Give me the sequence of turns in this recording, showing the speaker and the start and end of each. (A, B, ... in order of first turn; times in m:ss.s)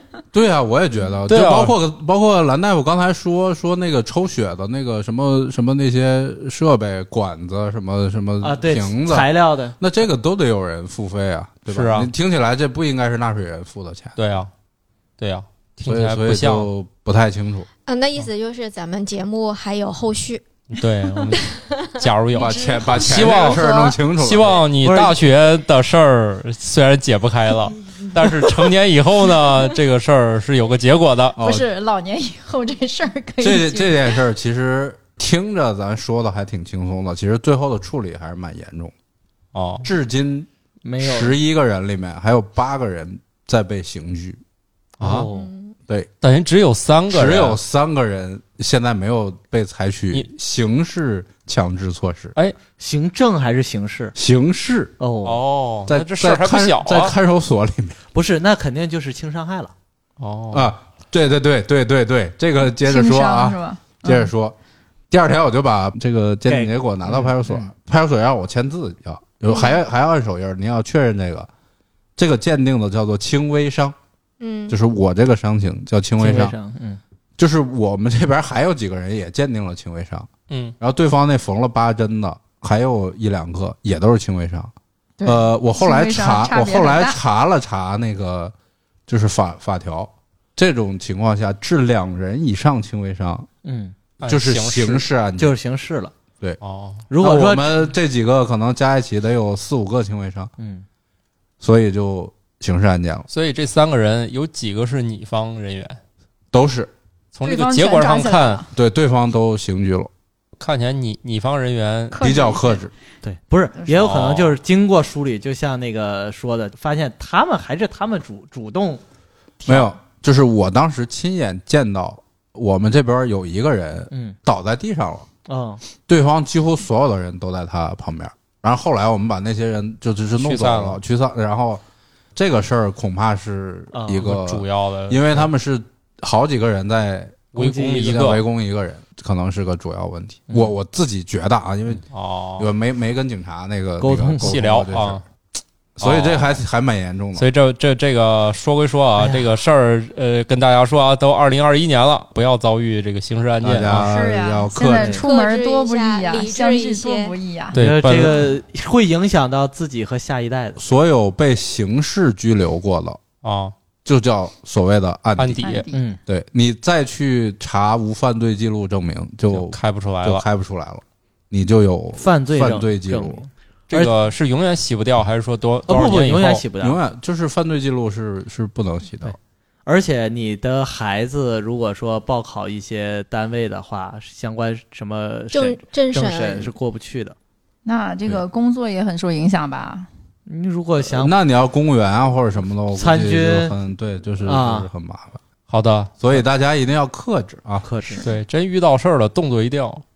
0:00.3-0:14.2 A
0:01.3-0:01.8 B
0:08.4-0:09.8 C
0:11.7-0:12.1 B
0:14.2-0:14.5 B
0:15.2-0:16.7 B
0:15.8-0:17.7 A
0:17.9-0:20.4 D
0:20.7-0:23.6 B
0:21.4-0:21.9 D
0:22.3-0:24.6 A
0:22.4-0:24.0 E
0:24.2-0:31.4 B
0:24.7-0:25.2 C
0:31.4-0:31.7 A
0:31.4-0:34.2 E
0:33.4-0:38.9 A
0:39.5-0:39.9 B
0:39.8-0:40.5 A
0:40.8-0:41.4 C
0:41.0-0:44.4 A
0:45.0-0:45.5 C
0:45.0-0:45.3 B
0:45.3-0:45.7 D
0:46.2-0:47.6 B
0:47.1-0:52.3 A
0:52.8-0:54.2 C
0:54.2-0:54.9 A
0:55.0-0:55.4 C
0:55.2-0:57.2 B
0:55.9-0:58.0 A
0:58.1-0:59.7 C
1:00.2-1:00.7 B
1:00.5-1:04.6 A
1:02.8-1:04.3 E
1:05.1-1:11.5 A
1:06.5-1:07.7 C
1:09.5-1:09.8 D
1:12.2-1:14.0 A
1:14.4-1:14.8 D
1:14.7-1:16.6 A
1:16.2-1:17.0 C
1:17.4-1:20.3 A
1:20.5-1:20.8 B
1:20.8-1:24.7 A
1:25.2-1:27.2 E
1:25.2-1:28.5 A
1:29.1-1:33.5 A
1:33.6-1:34.0 C
1:34.2-1:35.1 B
1:34.3-1:35.6 A
1:35.4-1:36.1 C
1:36.6-1:37.1 B
1:37.1-1:37.9 C
1:37.2-1:40.5 A
1:40.6-1:40.9 C
1:41.6-1:43.3 A
1:43.3-1:46.0 B
1:46.5-1:46.9 A
1:47.3-1:48.6 B
1:47.4-1:48.7 E
1:48.7-1:50.1 A
1:50.6-1:52.2 B
1:52.1-1:52.8 E
1:52.2-1:52.9 A
1:53.2-1:59.0 C
1:53.9-1:54.6 B
1:59.6-1:59.9 C
1:59.7-2:05.3 A
2:04.1-2:04.4 C
2:05.5-2:05.8 C
2:06.0-2:11.8 A
2:10.4-2:11.0 B
2:12.4-2:22.0 A
2:13.9-2:14.3 C
2:14.2-2:15.5 B
2:17.5-2:18.4 B
2:22.1-2:22.7 B
2:22.6-2:25.2 A
2:24.0-2:24.6 C
2:24.4-2:25.2 B
2:26.0-2:27.5 A
2:26.0-2:26.6 B
2:27.4-2:34.1 B
2:33.6-2:35.2 A
2:34.0-2:37.8 E
2:35.2-2:37.4 D
2:37.7-2:38.5 B
2:37.7-2:40.9 C
2:40.8-2:43.2 A
2:43.4-2:43.8 B
2:44.0-2:45.7 A
2:45.4-2:45.9 B
2:45.6-2:46.1 E
2:45.9-2:46.2 C
2:46.3-2:53.4 A
2:49.5-2:50.4 B
2:52.2-2:54.1 C
2:53.9-2:56.6 B
2:55.9-2:57.0 C
2:56.8-2:59.4 A
2:59.9-3:07.4 C
3:05.5-3:06.7 D
3:07.8-3:10.1 E
3:10.5-3:11.3 C
3:11.0-3:15.4 A
3:12.9-3:13.8 C
3:14.4-3:14.9 C
3:15.7-3:16.1 B
3:16.2-3:17.9 A
3:17.8-3:18.3 C
3:18.2-3:20.0 B